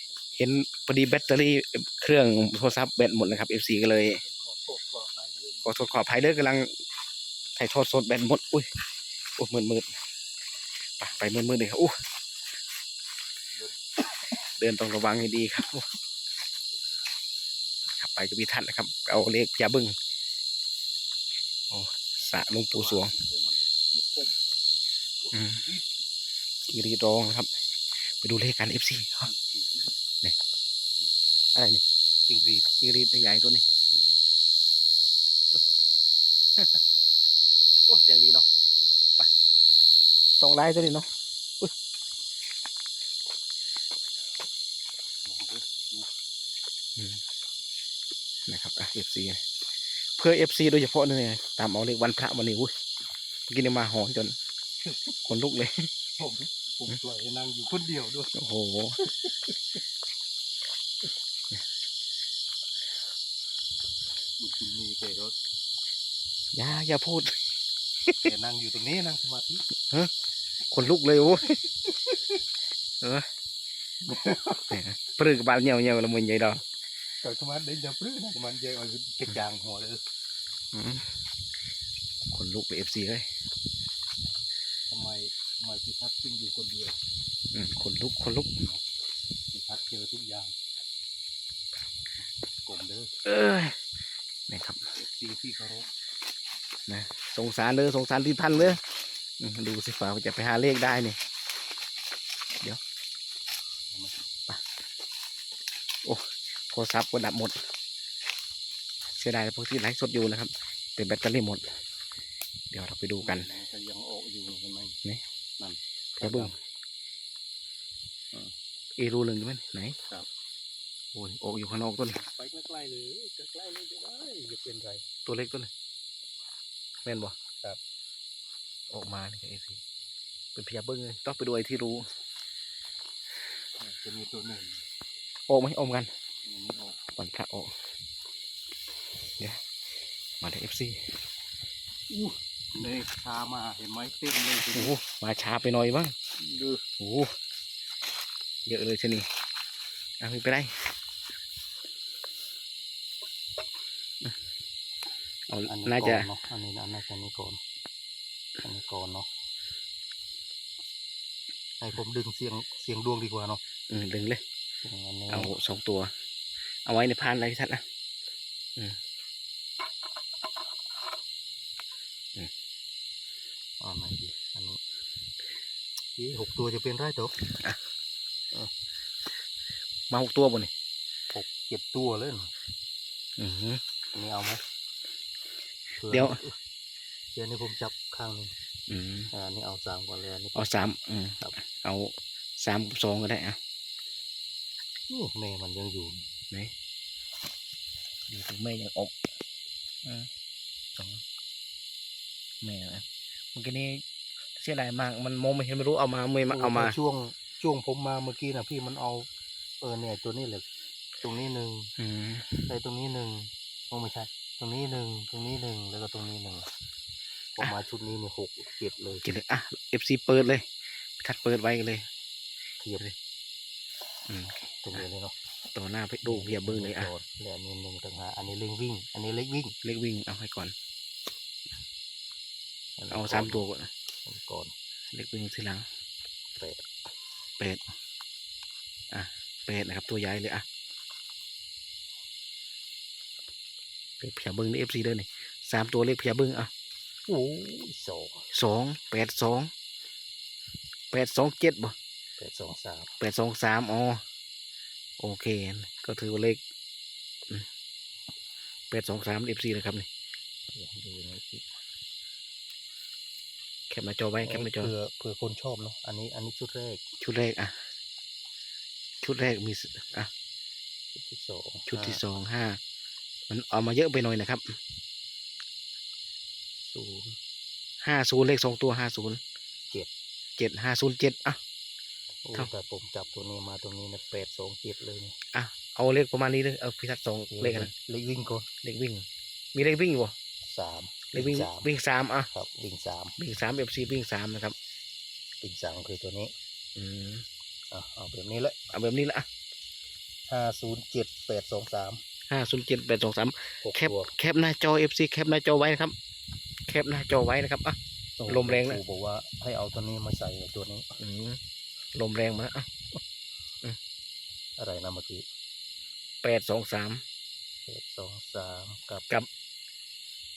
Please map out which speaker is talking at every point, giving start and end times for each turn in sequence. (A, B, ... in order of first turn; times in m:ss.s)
0:00.4-0:04.2 A
0:04.2-0:05.8 B
0:05.6-0:06.7 A
0:07.6-0:08.7 A
0:09.4-0:09.9 A
0:11.0-0:12.0 A
0:14.5-0:15.9 A
0:16.7-0:17.1 B
0:18.0-0:19.9 A
0:21.7-0:23.1 A
0:22.2-0:24.6 B
0:25.2-0:25.9 B
0:25.3-0:25.7 A
0:26.7-0:27.5 A
0:28.1-0:29.3 A
0:29.3-0:30.0 B
0:31.6-0:31.8 A
0:32.3-0:32.8 B
0:32.8-0:33.6 A
0:33.9-0:34.2 B
0:37.9-0:38.5 A
0:40.4-0:41.1 A
0:45.2-0:46.1 B
0:47.0-0:47.2 A
0:48.5-0:49.4 A
0:50.1-0:52.7 A
0:53.5-0:54.4 A
0:54.8-0:55.1 B
0:55.2-0:55.9 A
0:56.2-0:58.3 B
0:58.3-0:59.0 A
0:59.2-0:59.5 B
1:04.4-1:05.4 B
1:06.5-1:07.4 A
1:08.2-1:09.6 B
1:09.8-1:10.1 A
1:10.7-1:11.6 A
1:13.0-1:13.3 A
1:14.0-1:14.8 B
1:14.7-1:16.6 A
1:17.2-1:20.0 B
1:20.7-1:21.1 A
1:22.3-1:23.3 A
1:24.9-1:27.0 B
1:27.5-1:28.6 A
1:29.5-1:30.5 B
1:32.6-1:33.2 B
1:33.2-1:33.8 A
1:34.5-1:34.8 A
1:35.0-1:35.9 B
1:36.9-1:38.8 A
1:39.4-1:41.2 A
1:43.9-1:44.2 B
1:46.0-1:47.6 A
1:49.2-1:51.7 A
1:52.7-1:53.5 A
1:53.2-1:55.0 B
1:55.6-1:56.6 B
1:56.2-1:56.6 A
1:59.0-2:00.0 A
2:01.1-2:02.2 A
2:02.0-2:05.1 B
2:05.3-2:05.7 A
2:07.0-2:07.4 A
2:08.9-2:09.8 A
2:10.6-2:12.1 A
2:13.8-2:14.8 B
2:15.5-2:16.1 A
2:16.4-2:17.0 B
2:17.2-2:17.7 A
2:20.4-2:21.1 A
2:22.1-2:25.0 B
2:24.7-2:26.2 A
2:26.4-2:26.8 B
2:27.0-2:27.3 A
2:28.7-2:29.3 A
2:30.2-2:30.7 A
2:35.5-2:36.3 A
2:35.7-2:37.6 B
2:38.6-2:39.3 B
2:41.8-2:43.6 B
2:43.9-2:44.4 A
2:44.8-2:45.5 B
2:45.3-2:46.1 A
2:46.9-2:47.8 A
2:53.8-2:54.8 B
2:56.2-2:57.4 B
3:00.1-3:00.7 A
3:01.3-3:02.5 B
3:03.4-3:03.8 A
3:04.1-3:04.6 B
3:06.0-3:06.6 B
3:06.1-3:06.4 A
3:07.4-3:08.5 B
3:08.9-3:09.3 A
3:09.3-3:10.9 B
3:10.6-3:13.6 A
3:15.1-3:16.3 B
3:18.3-3:19.1 A
3:20.0-3:20.3 A
3:21.0-3:21.2 A
3:22.6-3:24.0 A
3:24.6-3:27.0 A
3:26.5-3:29.3 B
3:29.8-3:30.7 B
3:31.2-3:31.9 B
3:32.0-3:32.7 A
3:32.7-3:36.7 B
3:37.6-3:39.2 B
3:39.2-3:40.7 A
3:41.2-3:42.1 A
3:42.8-3:43.1 B
3:44.3-3:45.0 A
3:44.8-3:45.4 B
3:45.7-3:47.1 A
3:46.2-3:49.8 B
3:49.8-3:50.7 A
3:53.0-3:53.6 B
3:53.1-3:53.9 A
3:54.2-3:54.7 B
3:55.1-3:55.9 A
3:56.6-3:56.8 B
3:59.1-4:00.6 A
4:04.2-4:06.7 A
4:07.3-4:08.5 B
4:08.5-4:09.7 A
4:11.1-4:12.0 A
4:12.4-4:13.1 B
4:13.2-4:14.2 A
4:15.2-4:16.6 A
4:18.9-4:20.1 A
4:20.7-4:21.7 B
4:23.9-4:24.9 A
4:24.4-4:27.0 B
4:27.2-4:27.8 A
4:29.2-4:30.3 A
4:31.2-4:32.2 B
4:31.9-4:32.8 A
4:33.5-4:34.8 A
4:36.9-4:37.4 B
4:38.0-4:39.4 A
4:40.6-4:41.6 A
4:42.4-4:45.4 B
4:45.5-4:47.9 A
4:47.5-4:48.7 B
4:48.8-4:50.3 A
4:50.6-4:51.9 B
4:51.3-4:52.5 A
4:52.5-4:53.4 B
4:53.4-4:54.8 A
4:55.6-4:56.5 B
4:57.0-4:57.5 A
4:57.9-4:58.8 B
4:58.9-4:59.5 A
5:00.5-5:02.2 B
5:02.5-5:06.2 A
5:03.8-5:04.3 B
5:06.9-5:09.0 A
5:08.4-5:11.1 B
5:11.2-5:11.6 A
5:12.2-5:12.9 A
5:14.8-5:15.4 B
5:16.4-5:17.2 A
5:17.9-5:19.3 B